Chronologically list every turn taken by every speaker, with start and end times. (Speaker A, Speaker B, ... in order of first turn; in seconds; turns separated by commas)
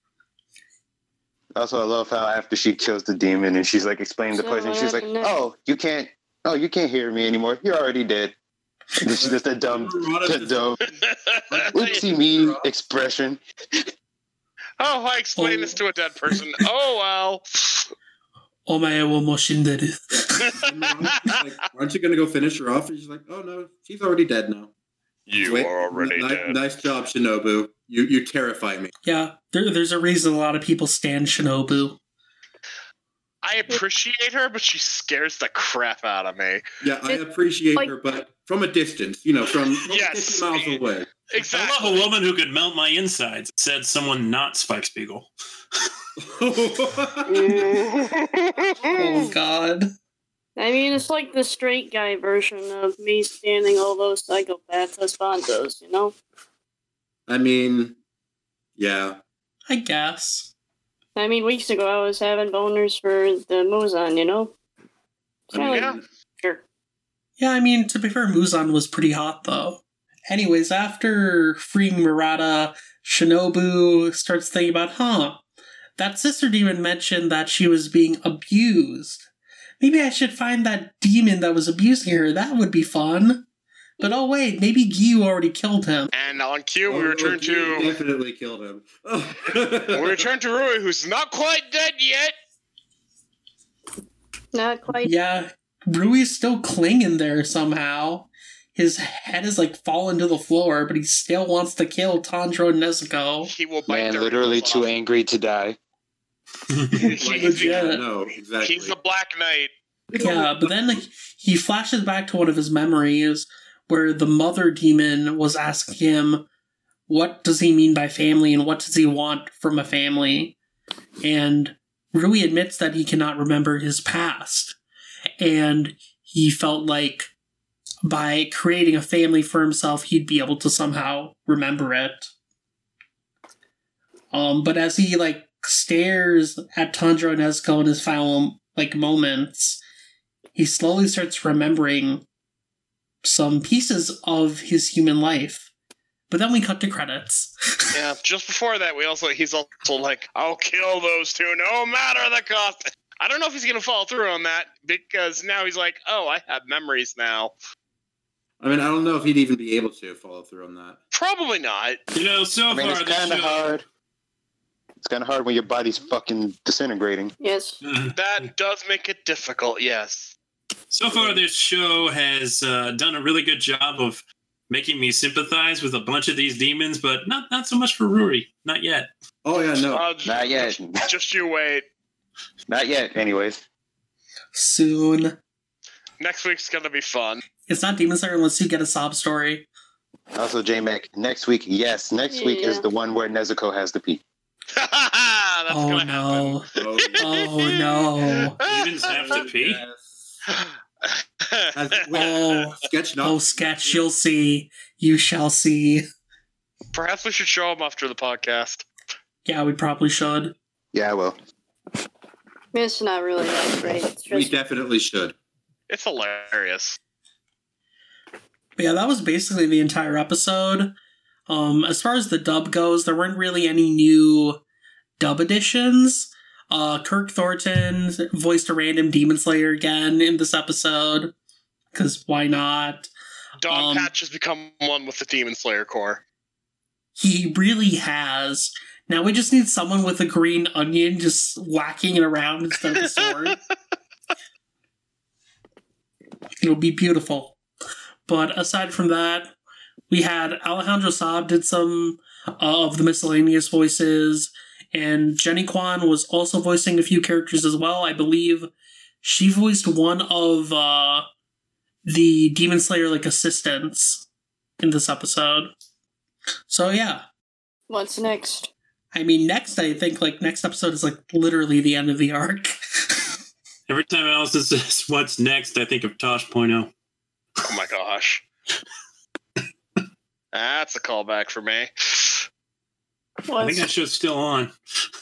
Speaker A: 1.5-8.3, Speaker B: 4.3-5.4, Speaker A: 9.0-10.8, Speaker C: 9.0-12.7, Speaker D: 11.0-12.0, Speaker A: 11.7-13.8, Speaker D: 14.8-17.9, Speaker E: 15.4-15.8, Speaker E: 18.7-20.6, Speaker C: 20.1-24.7, Speaker D: 20.5-21.4, Speaker D: 25.3-26.6, Speaker C: 25.4-28.9, Speaker E: 29.0-32.0, Speaker D: 33.4-36.6, Speaker C: 36.8-41.1, Speaker D: 39.8-42.1, Speaker F: 41.4-45.3, Speaker C: 46.2-47.5, Speaker D: 47.3-49.3, Speaker E: 48.9-49.9, Speaker B: 50.6-56.1, Speaker C: 57.3-58.0, Speaker C: 58.8-59.2, Speaker E: 59.7-60.5, Speaker B: 61.1-64.5, Speaker B: 65.5-66.6, Speaker C: 65.5-66.0, Speaker D: 65.6-66.0, Speaker E: 67.4-75.4, Speaker E: 76.0-79.2, Speaker E: 79.8-83.4, Speaker E: 84.0-86.1, Speaker D: 86.1-87.9, Speaker C: 86.9-90.3, Speaker D: 89.9-92.3, Speaker B: 94.5-95.1, Speaker E: 95.0-103.5, Speaker D: 103.5-104.9, Speaker A: 103.9-105.8, Speaker F: 106.7-107.1, Speaker D: 107.0-107.9, Speaker E: 107.0-108.0, Speaker C: 107.1-109.0, Speaker D: 108.6-109.7, Speaker E: 110.2-116.4, Speaker E: 117.1-120.5, Speaker E: 121.2-124.8, Speaker E: 125.4-127.3, Speaker E: 128.0-132.3, Speaker E: 134.3-139.8, Speaker E: 140.6-142.2, Speaker E: 143.2-145.7, Speaker E: 146.3-147.9, Speaker D: 147.9-157.5, Speaker C: 158.6-161.0, Speaker D: 161.1-162.0, Speaker F: 162.1-163.8, Speaker A: 162.7-163.8, Speaker A: 165.0-167.3, Speaker B: 167.4-167.8, Speaker F: 167.8-168.5, Speaker D: 168.1-170.3, Speaker F: 170.9-179.1, Speaker C: 179.4-180.1, Speaker D: 179.9-181.8, Speaker A: 180.2-181.1, Speaker A: 182.7-183.6, Speaker E: 184.5-185.3, Speaker D: 186.2-187.4, Speaker E: 187.7-189.7, Speaker A: 190.3-194.2, Speaker B: 192.3-192.8, Speaker D: 194.7-199.4, Speaker E: 195.7-196.7, Speaker C: 196.8-197.5, Speaker E: 197.2-198.6, Speaker F: 198.6-199.8, Speaker C: 199.0-200.4, Speaker D: 200.5-202.5, Speaker C: 201.7-204.0, Speaker E: 202.1-206.0, Speaker D: 206.9-208.8, Speaker E: 209.4-210.5, Speaker A: 210.9-211.4, Speaker B: 212.7-214.5, Speaker C: 214.3-215.3, Speaker D: 215.9-217.0, Speaker E: 218.8-220.9, Speaker E: 221.5-224.6, Speaker E: 225.2-231.3, Speaker E: 231.9-233.1, Speaker D: 233.6-236.2, Speaker E: 233.7-234.1, Speaker E: 237.2-243.6, Speaker D: 243.0-243.5, Speaker E: 246.6-247.6, Speaker E: 248.3-249.5, Speaker E: 250.1-258.7, Speaker E: 259.2-261.2, Speaker E: 262.1-264.2, Speaker E: 264.8-265.7, Speaker E: 266.7-267.2, Speaker B: 267.9-268.7, Speaker E: 269.1-273.2, Speaker F: 273.9-276.9, Speaker D: 277.6-278.4, Speaker D: 280.5-282.4, Speaker B: 283.4-283.9, Speaker F: 283.6-284.7